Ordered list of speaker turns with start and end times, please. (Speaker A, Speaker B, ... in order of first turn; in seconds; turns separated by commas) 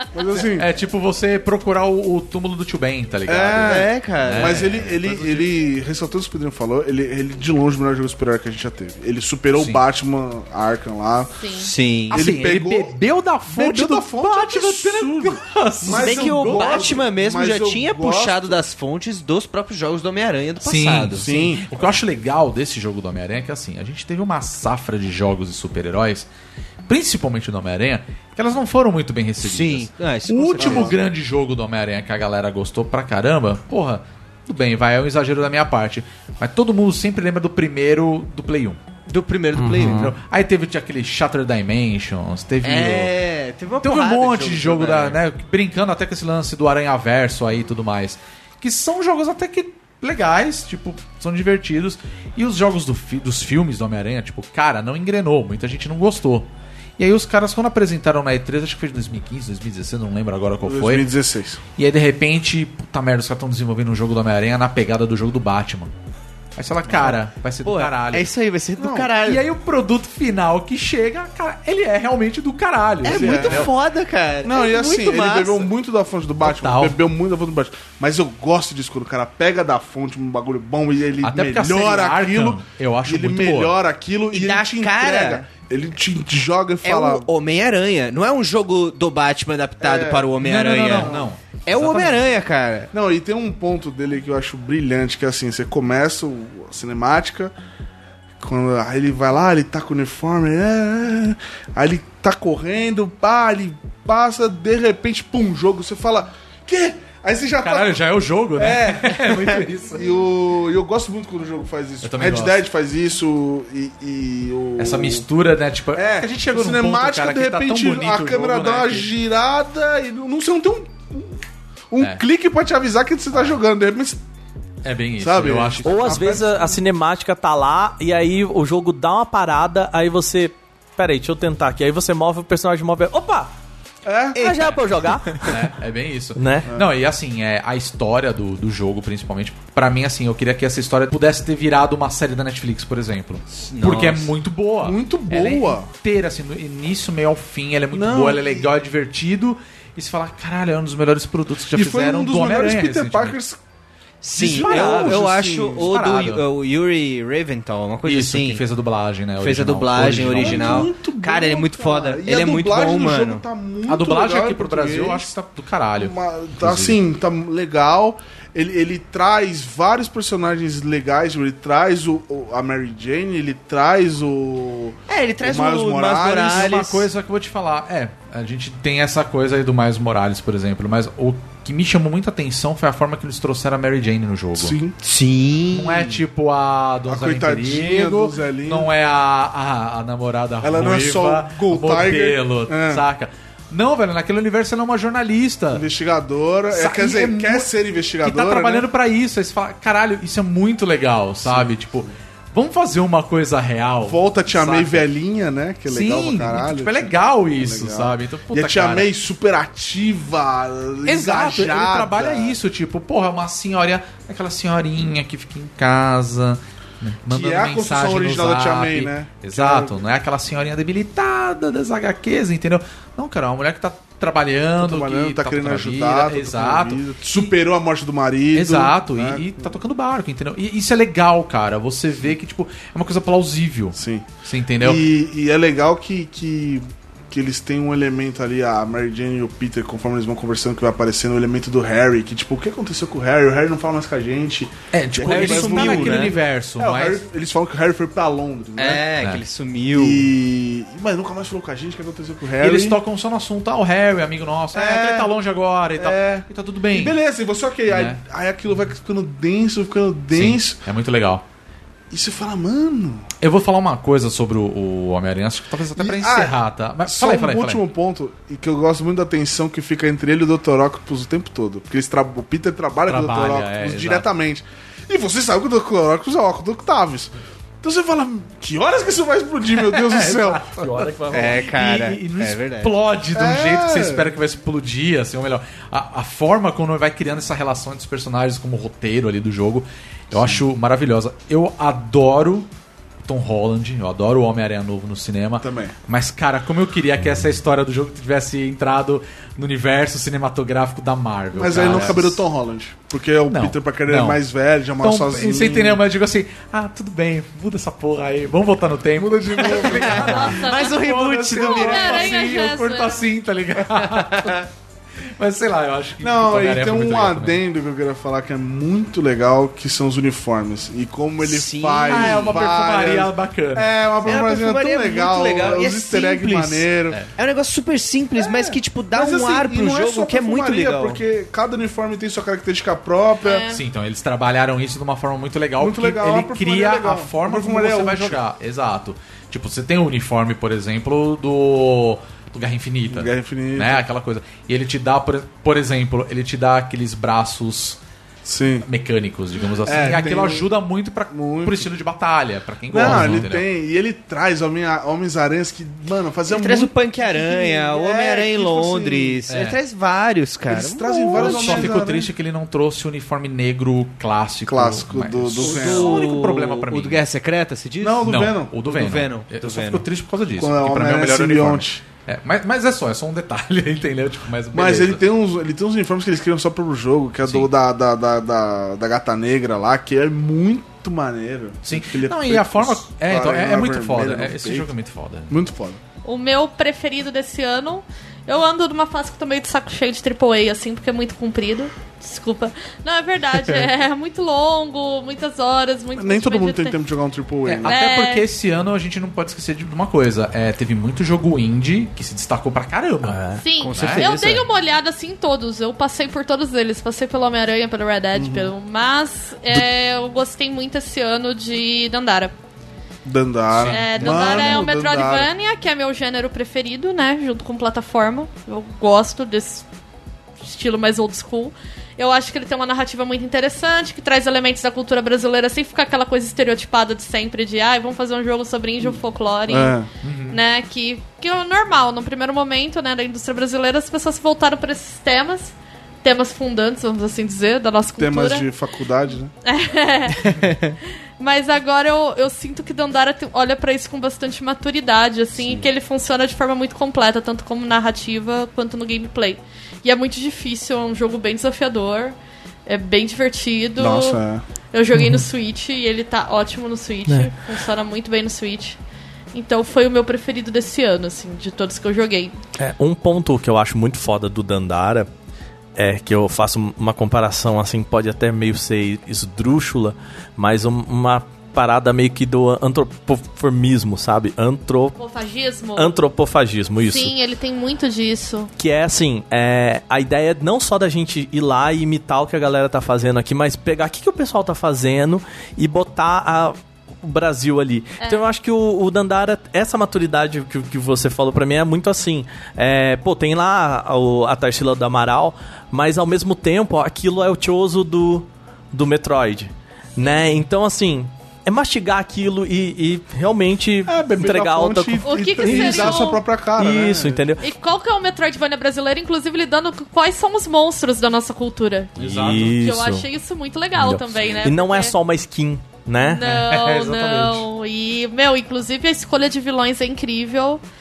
Speaker A: 0.1-0.7, Speaker B: 0.4-5.4, Speaker A: 3.3-11.4, Speaker C: 3.6-4.7, Speaker B: 9.6-9.8, Speaker D: 11.4-11.7, Speaker C: 11.5-12.3, Speaker A: 12.1-13.0, Speaker B: 12.1-16.9, Speaker A: 13.5-18.6, Speaker C: 15.9-21.5, Speaker B: 20.6-26.3, Speaker A: 21.1-21.7, Speaker B: 26.9-38.8, Speaker C: 29.4-31.0, Speaker A: 30.6-31.0, Speaker C: 39.1-40.1, Speaker E: 39.6-40.0, Speaker B: 39.6-43.1, Speaker C: 42.6-45.2, Speaker B: 43.8-61.1, Speaker A: 60.6-61.6, Speaker B: 61.8-65.9, Speaker B: 66.6-68.3, Speaker C: 67.0-69.5, Speaker A: 68.8-69.1, Speaker B: 69.2-73.7, Speaker C: 73.0-75.7, Speaker A: 73.0-73.7, Speaker A: 74.4-87.3, Speaker B: 76.4-77.0, Speaker B: 81.2-83.8, Speaker C: 84.3-85.5, Speaker C: 86.8-92.9, Speaker A: 89.8-91.3, Speaker B: 90.4-92.2, Speaker A: 92.9-97.5, Speaker A: 98.4-108.0, Speaker B: 107.6-110.2, Speaker A: 108.5-115.3, Speaker B: 112.0-112.6, Speaker B: 114.8-119.1, Speaker A: 115.9-124.2, Speaker B: 123.3-123.6, Speaker B: 124.8-126.3, Speaker A: 125.2-126.8, Speaker E: 125.8-133.5, Speaker A: 134.1-134.5, Speaker C: 134.4-135.6, Speaker E: 134.4-135.4, Speaker B: 135.4-153.4, Speaker E: 136.4-136.7, Speaker C: 143.5-144.3, Speaker A: 144.8-145.9, Speaker A: 147.9-148.7, Speaker A: 151.7-153.6, Speaker C: 154.2-158.6, Speaker B: 154.3-155.3, Speaker A: 154.4-156.0, Speaker B: 155.8-156.4, Speaker B: 158.0-160.9, Speaker C: 159.4-163.4, Speaker A: 160.0-165.3, Speaker B: 163.9-167.0, Speaker A: 166.0-176.7, Speaker C: 175.1-177.1, Speaker B: 176.4-184.8, Speaker A: 184.6-185.0, Speaker C: 185.0-186.2, Speaker B: 185.7-195.9, Speaker A: 187.1-188.9, Speaker A: 190.6-193.0, Speaker A: 195.7-198.9, Speaker B: 196.7-197.7, Speaker B: 198.2-205.1, Speaker A: 201.4-202.1, Speaker A: 204.1-212.6, Speaker B: 205.9-209.1, Speaker B: 211.1-227.5, Speaker A: 217.3-220.0, Speaker A: 224.8-229.8, Speaker B: 228.5-235.0, Speaker A: 233.9-234.3, Speaker A: 234.8-249.1, Speaker B: 244.9-247.2, Speaker C: 245.2-246.4, Speaker C: 248.8-250.3, Speaker A: 249.9-253.0, Speaker B: 252.6-257.2, Speaker C: 254.8-255.3, Speaker A: 254.8-255.2, Speaker A: 256.0-260.8, Speaker B: 257.9-258.2, Speaker B: 260.3-261.4, Speaker A: 262.1-263.3, Speaker B: 263.4-267.8, Speaker A: 266.0-281.1, Speaker B: 273.1-274.3, Speaker B: 279.9-292.7, Speaker C: 281.3-282.9, Speaker A: 283.3-284.3, Speaker A: 290.3-290.6, Speaker B: 293.2-302.4, Speaker A: 295.6-295.9, Speaker A: 301.5-306.0, Speaker B: 303.5-304.4, Speaker B: 305.0-314.7, Speaker A: 309.1-310.5, Speaker C: 309.8-312.4, Speaker D: 310.2-313.2, Speaker C: 313.9-314.6, Speaker B: 315.4-317.6, Speaker A: 316.2-327.2, Speaker C: 321.4-322.7, Speaker B: 322.1-323.9, Speaker C: 324.2-331.2, Speaker A: 328.4-333.7, Speaker D: 333.4-333.8, Speaker B: 333.7-348.0, Speaker A: 335.8-338.4, Speaker A: 343.1-344.0, Speaker A: 348.4-348.9, Speaker B: 348.9-353.7, Speaker A: 349.8-350.7, Speaker A: 351.3-351.9, Speaker A: 352.9-359.4, Speaker E: 353.1-353.4, Speaker C: 356.5-361.9, Speaker B: 359.5-359.8, Speaker A: 360.7-362.3, Speaker B: 361.4-367.2, Speaker A: 364.7-366.3, Speaker C: 365.6-370.1, Speaker A: 368.0-368.8, Speaker B: 368.2-375.2, Speaker A: 370.6-372.0, Speaker A: 374.7-384.9, Speaker B: 377.4-377.7, Speaker B: 381.8-385.5, Speaker A: 385.5-386.0, Speaker D: 386.2-396.9, Speaker A: 396.2-397.9, Speaker B: 397.7-403.4, Speaker D: 397.9-398.4, Speaker E: 403.2-403.6, Speaker D: 403.6-412.5, Speaker C: 403.8-404.7, Speaker B: 403.9-404.3, Speaker A: 408.4-408.7, Speaker A: 413.2-415.5, Speaker B: 413.7-414.7, Speaker D: 413.9-419.9, Speaker D: 420.6-438.7, Speaker A: 429.0-430.1, Speaker B: 430.2-430.6, Speaker A: 438.2-439.5, Speaker D: 439.6-440.7, Speaker D: 441.4-452.4, Speaker D: 452.9-454.4, Speaker A: 454.0-454.6, Speaker D: 454.9-459.0, Speaker E: 455.1-455.4, Speaker D: 459.5-462.6, Speaker E: 462.8-465.3, Speaker E: 466.0-475.2, Speaker D: 475.2-476.2, Speaker E: 476.0-477.3, Speaker D: 477.0-478.7, Speaker E: 478.8-507.6, Speaker A: 504.1-507.4, Speaker D: 505.2-506.4, Speaker D: 507.6-515.1, Speaker B: 512.2-512.8, Speaker E: 512.2-513.3, Speaker E: 514.0-516.5, Speaker D: 516.2-520.8, Speaker B: 516.4-517.6